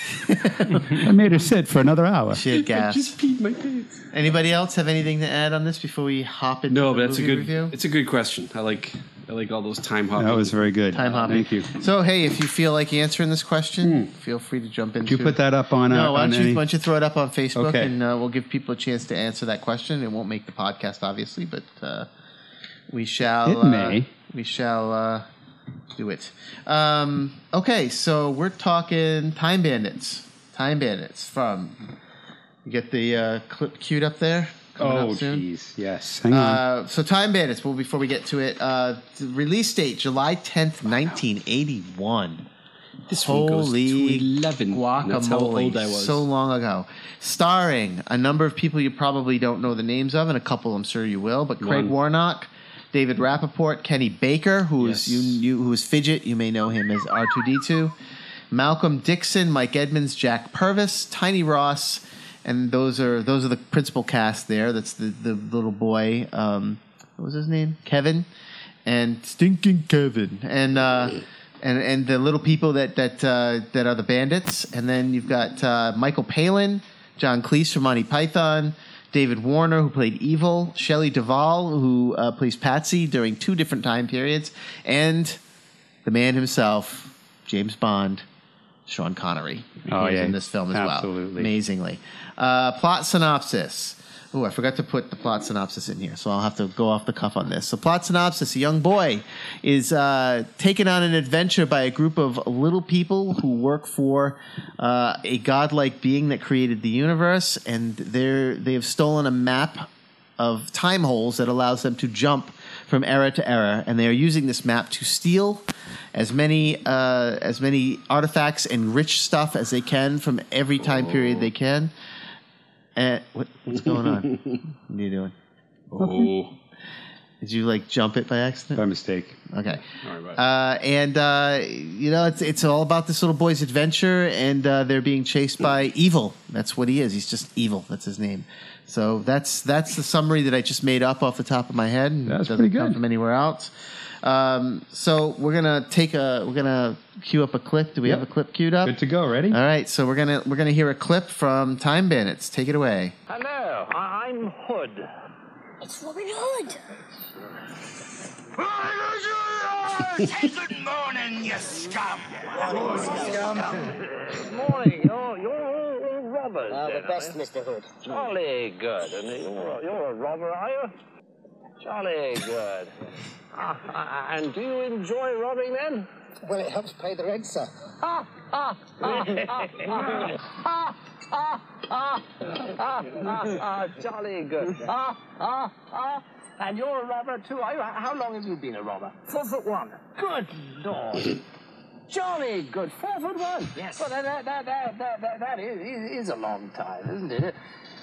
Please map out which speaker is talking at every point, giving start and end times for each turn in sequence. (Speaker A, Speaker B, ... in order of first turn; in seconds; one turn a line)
Speaker A: 0.2-1.0
Speaker B: 0.9-2.4
Speaker A: 2.3-3.1
Speaker C: 2.5-4.0
Speaker A: 4.1-7.7
Speaker C: 6.7-11.4
Speaker B: 10.2-11.7
Speaker A: 10.9-22.1
Speaker B: 13.8-14.1
Speaker B: 15.0-16.6
Speaker B: 17.5-17.9
Speaker A: 22.9-25.2
Speaker B: 23.4-24.1
Speaker A: 25.9-31.8
Speaker A: 32.6-35.4
Speaker B: 34.8-36.6
Speaker A: 36.3-42.5
Speaker C: 43.1-46.2
Speaker A: 43.2-57.9
Speaker C: 51.6-51.9
Speaker C: 54.8-55.4
Speaker A: 58.5-68.3
Speaker A: 68.8-85.4
Speaker A: 86.0-88.2
Speaker A: 88.9-115.6
Speaker B: 89.9-91.5
Speaker A: 116.1-121.9
Speaker C: 120.8-121.5
Speaker A: 123.0-125.3
Speaker C: 123.8-124.5
Speaker C: 125.9-126.5
Speaker B: 126.0-126.3
Speaker A: 127.4-128.8
Speaker B: 128.7-129.4
Speaker A: 129.5-129.8
Speaker C: 129.9-130.4
Speaker A: 130.3-143.7
Speaker B: 142.3-143.0
Speaker A: 144.2-148.9
Speaker B: 148.8-149.6
Speaker A: 149.5-153.1
Speaker D: 153.3-155.1
Speaker E: 155.8-156.8
Speaker D: 158.6-167.4
Speaker E: 162.5-163.8
Speaker E: 166.7-168.3
Speaker D: 168.0-170.9
Speaker D: 171.8-172.9
Speaker D: 173.5-176.1
Speaker E: 176.5-177.7
Speaker D: 178.0-191.4
Speaker D: 192.1-197.6
Speaker E: 193.7-194.1